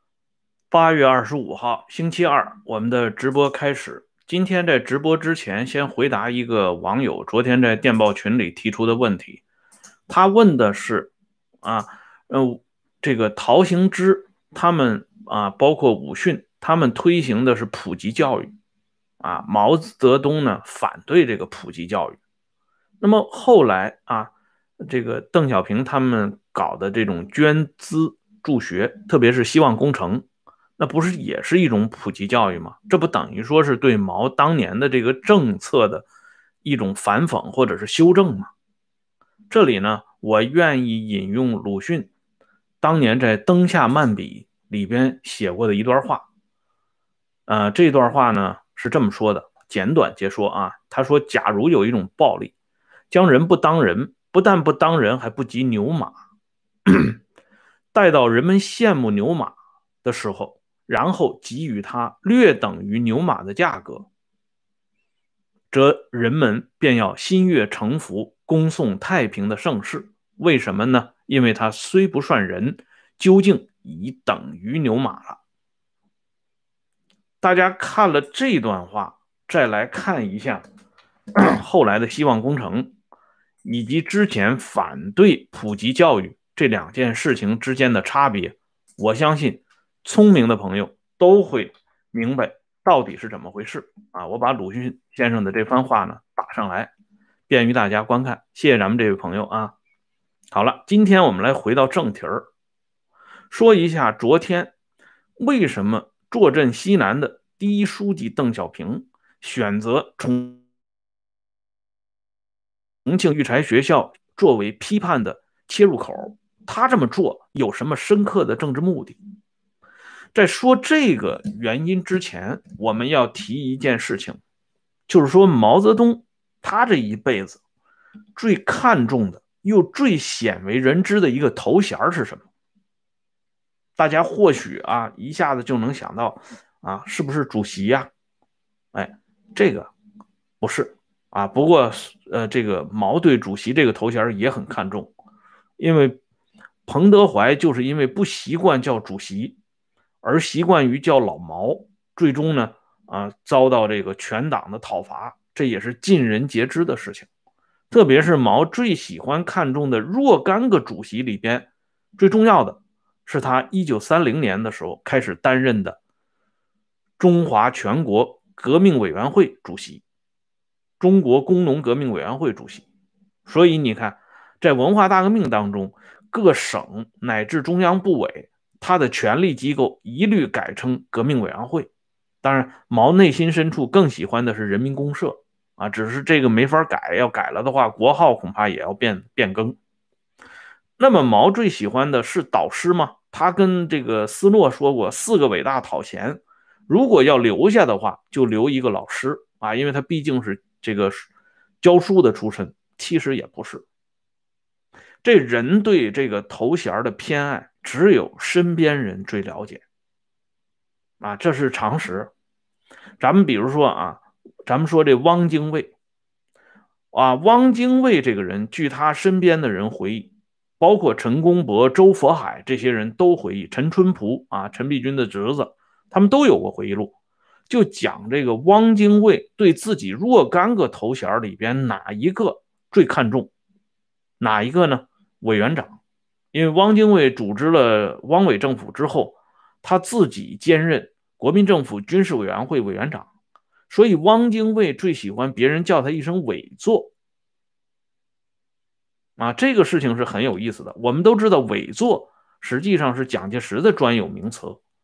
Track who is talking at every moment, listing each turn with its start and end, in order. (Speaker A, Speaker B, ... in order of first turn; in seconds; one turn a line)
Speaker A: 0.7-9.4
Speaker A: 10.1-11.1
Speaker A: 11.6-18.5
Speaker A: 19.2-22.2
Speaker A: 23.0-30.2
Speaker A: 30.8-36.0
Speaker A: 36.6-38.5
Speaker A: 39.5-42.1
Speaker A: 42.8-46.3
Speaker A: 47.5-52.5
Speaker A: 53.1-56.2
Speaker A: 56.9-57.2
Speaker A: 57.9-64.1
Speaker A: 65.7-75.4
Speaker A: 77.4-80.7
Speaker A: 81.4-82.9
Speaker A: 83.6-96.9
Speaker A: 97.5-99.8
Speaker A: 100.5-102.5
Speaker A: 103.5-104.7
Speaker A: 105.4-110.6
Speaker A: 113.0-119.2
Speaker A: 120.3-124.4
Speaker A: 125.1-127.6
Speaker A: 128.4-132.5
Speaker A: 134.0-138.1
Speaker A: 138.9-139.9
Speaker A: 140.6-145.1
Speaker A: 145.8-146.2
Speaker A: 146.9-149.6
Speaker A: 150.2-157.3
Speaker A: 157.9-166.0
Speaker A: 167.2-170.0
Speaker A: 171.0-172.8
Speaker A: 173.5-181.9
Speaker A: 182.4-189.8
Speaker A: 191.0-201.3
Speaker A: 201.8-203.8
Speaker A: 205.2-209.8
Speaker A: 211.2-212.3
Speaker A: 213.2-215.9
Speaker A: 217.1-227.1
Speaker A: 227.7-233.5
Speaker A: 234.4-236.0
Speaker A: 236.5-243.3
Speaker A: 243.9-247.1
Speaker A: 249.4-254.8